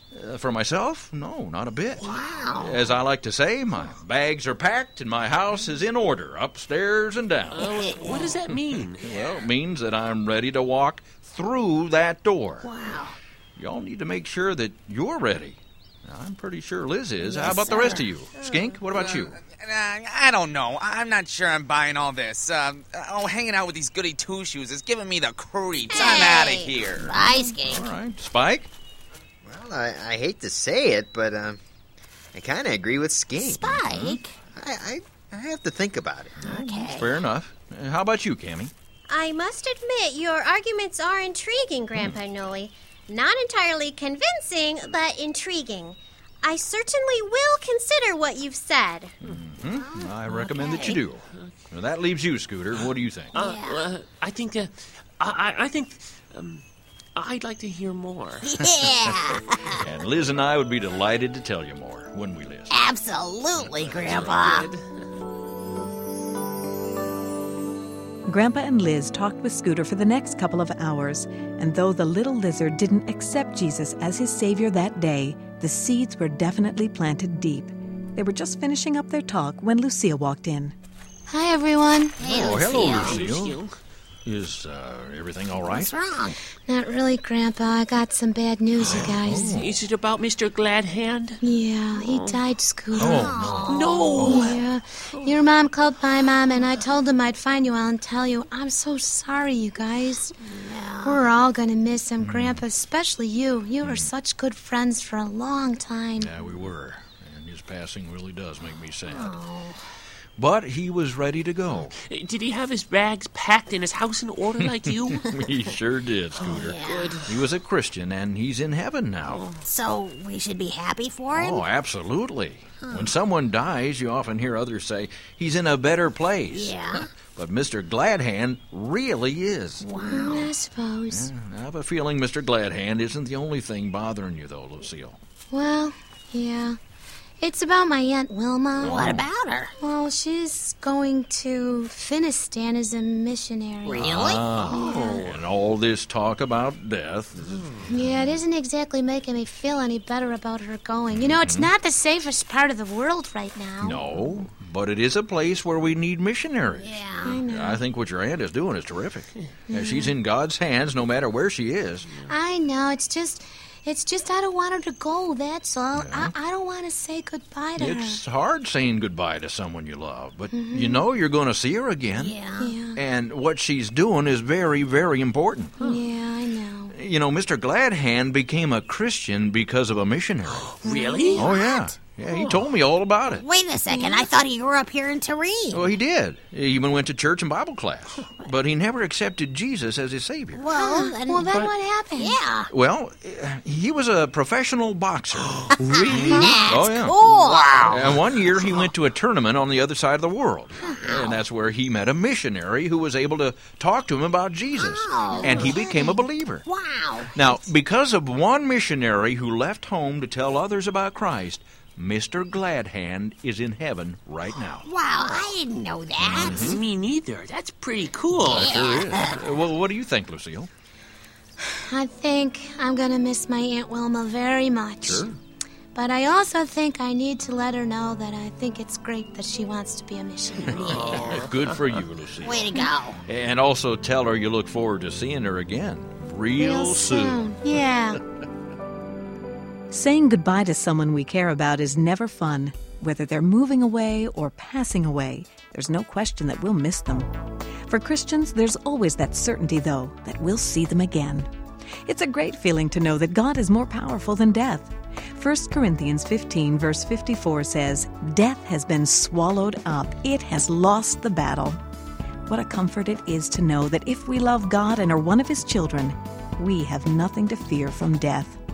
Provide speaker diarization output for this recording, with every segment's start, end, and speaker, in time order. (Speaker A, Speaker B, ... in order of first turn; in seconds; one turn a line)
Speaker A: 0.1-12.7
Speaker B: 2.0-2.9
Speaker C: 7.5-9.2
Speaker B: 7.8-8.1
Speaker B: 12.6-13.2
Speaker A: 13.6-19.4
Speaker B: 17.2-18.1
Speaker D: 18.4-18.8
Speaker E: 18.9-27.1
Speaker D: 25.9-26.8
Speaker B: 26.9-27.9
Speaker A: 27.6-28.7
Speaker F: 29.4-31.6
Speaker F: 32.3-33.9
Speaker B: 33.4-34.4
Speaker A: 33.8-34.2
Speaker F: 34.5-36.4
Speaker B: 36.4-37.2
Speaker A: 36.5-38.7
Speaker D: 39.1-49.1
Speaker A: 49.2-53.4
Speaker B: 49.8-51.0
Speaker C: 50.3-51.6
Speaker B: 53.3-53.9
Speaker C: 53.4-56.6
Speaker C: 57.2-58.5
Speaker B: 58.4-59.9
Speaker A: 58.6-59.2
Speaker A: 59.7-62.8
Speaker B: 62.7-64.7
Speaker A: 63.6-64.5
Speaker C: 64.1-64.8
Speaker G: 68.3-80.8
Speaker H: 81.3-82.2
Speaker B: 82.2-83.2
Speaker C: 82.2-83.8
Speaker A: 82.2-83.6
Speaker A: 84.2-85.9
Speaker B: 85.7-86.4
Speaker H: 86.7-89.6
Speaker A: 88.8-89.8
Speaker C: 89.5-91.4
Speaker H: 91.4-93.5
Speaker C: 91.9-92.4
Speaker A: 92.9-94.6
Speaker C: 92.9-94.6
Speaker B: 93.0-94.0
Speaker H: 94.2-100.3
Speaker C: 95.1-95.4
Speaker B: 100.4-101.2
Speaker H: 101.0-106.3
Speaker A: 102.2-102.6
Speaker A: 103.8-104.1
Speaker A: 106.2-109.3
Speaker B: 109.1-109.8
Speaker A: 110.4-112.0
Speaker C: 112.0-115.3
Speaker A: 115.2-119.5
Speaker B: 116.4-117.2
Speaker C: 116.8-117.3
Speaker B: 119.6-121.6
Speaker A: 121.3-129.9
Speaker B: 122.8-123.1
Speaker B: 126.5-127.1
Speaker B: 129.8-130.5
Speaker H: 130.0-131.3
Speaker A: 131.1-135.2
Speaker H: 135.5-136.8
Speaker H: 137.4-139.2
Speaker A: 138.8-139.3
Speaker B: 138.8-139.7
Speaker H: 139.8-145.2
Speaker B: 143.8-144.5
Speaker A: 144.0-148.2
Speaker H: 147.9-154.2
Speaker A: 151.2-151.7
Speaker A: 153.8-162.1
Speaker B: 156.8-157.4
Speaker H: 157.2-157.8
Speaker H: 159.7-160.2
Speaker C: 162.1-162.3
Speaker H: 162.3-168.2
Speaker A: 165.9-166.3
Speaker A: 167.8-172.4
Speaker H: 170.5-171.1
Speaker B: 172.1-172.8
Speaker H: 172.6-173.0
Speaker A: 172.9-175.8
Speaker H: 175.8-176.9
Speaker A: 176.9-180.8
Speaker C: 180.5-182.7
Speaker H: 180.8-181.5
Speaker A: 181.3-183.4
Speaker B: 183.3-185.9
Speaker H: 183.9-184.3
Speaker A: 185.7-190.6
Speaker B: 188.2-188.5
Speaker B: 190.5-191.6
Speaker H: 190.7-192.4
Speaker B: 192.1-192.7
Speaker A: 192.7-197.2
Speaker C: 195.5-196.6
Speaker B: 195.7-198.8
Speaker C: 197.2-198.3
Speaker A: 197.8-206.7
Speaker B: 200.8-201.4
Speaker B: 204.7-207.6
Speaker H: 205.4-205.7
Speaker C: 205.4-205.7
Speaker A: 207.3-214.9
Speaker B: 214.8-216.8
Speaker A: 216.2-216.8
Speaker C: 216.4-218.8
Speaker A: 218.4-220.7
Speaker B: 218.5-219.4
Speaker H: 221.6-225.3
Speaker A: 225.0-225.4
Speaker H: 225.9-231.3
Speaker A: 230.7-237.4
Speaker B: 230.7-231.5
Speaker C: 230.8-232.0
Speaker B: 232.4-233.2
Speaker H: 236.6-238.2
Speaker G: 239.9-247.3
Speaker G: 247.9-251.5
Speaker G: 252.1-261.8
Speaker G: 262.5-268.6